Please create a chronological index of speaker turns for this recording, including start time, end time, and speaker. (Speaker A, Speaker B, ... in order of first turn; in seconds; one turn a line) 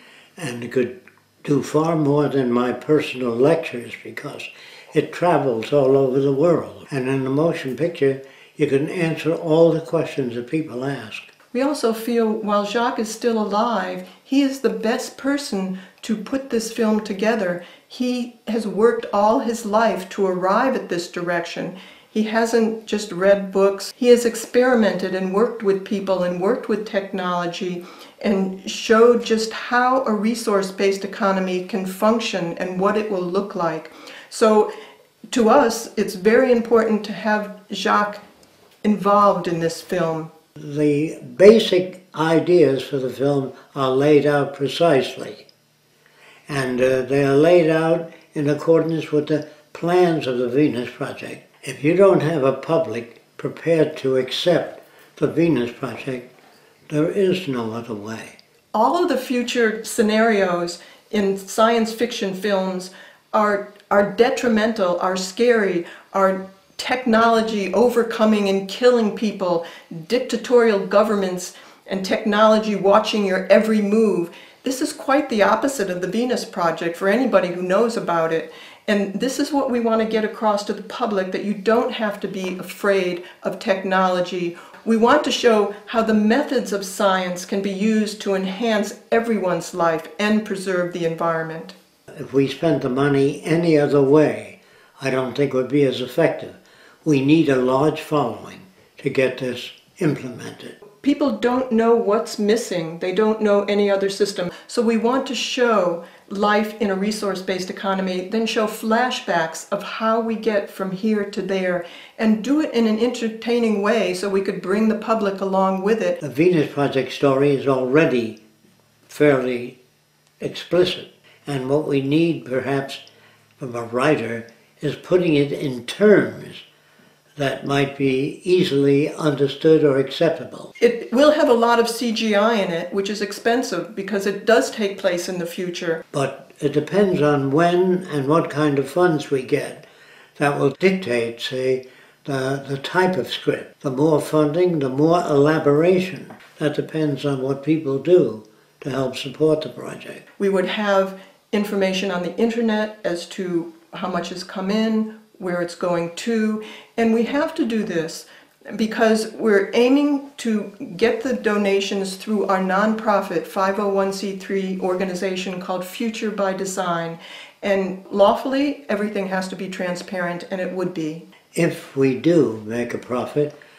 Speaker A: 0.4-11.2
Speaker B: 11.5-34.7
Speaker B: 35.3-38.2
Speaker B: 38.8-40.3
Speaker A: 40.6-45.4
Speaker A: 46.5-56.3
Speaker A: 56.9-58.4
Speaker B: 58.7-91.7
Speaker A: 92.1-100.7
Speaker B: 101.0-116.2
Speaker A: 116.2-118.4
Speaker A: 119.1-119.8
Speaker A: 120.4-123.0
Speaker A: 123.6-126.6
Speaker A: 127.4-130.7
Speaker B: 130.8-136.0
Speaker A: 136.1-139.8
Speaker A: 140.4-150.2
Speaker B: 150.4-171.2
Speaker A: 171.5-173.5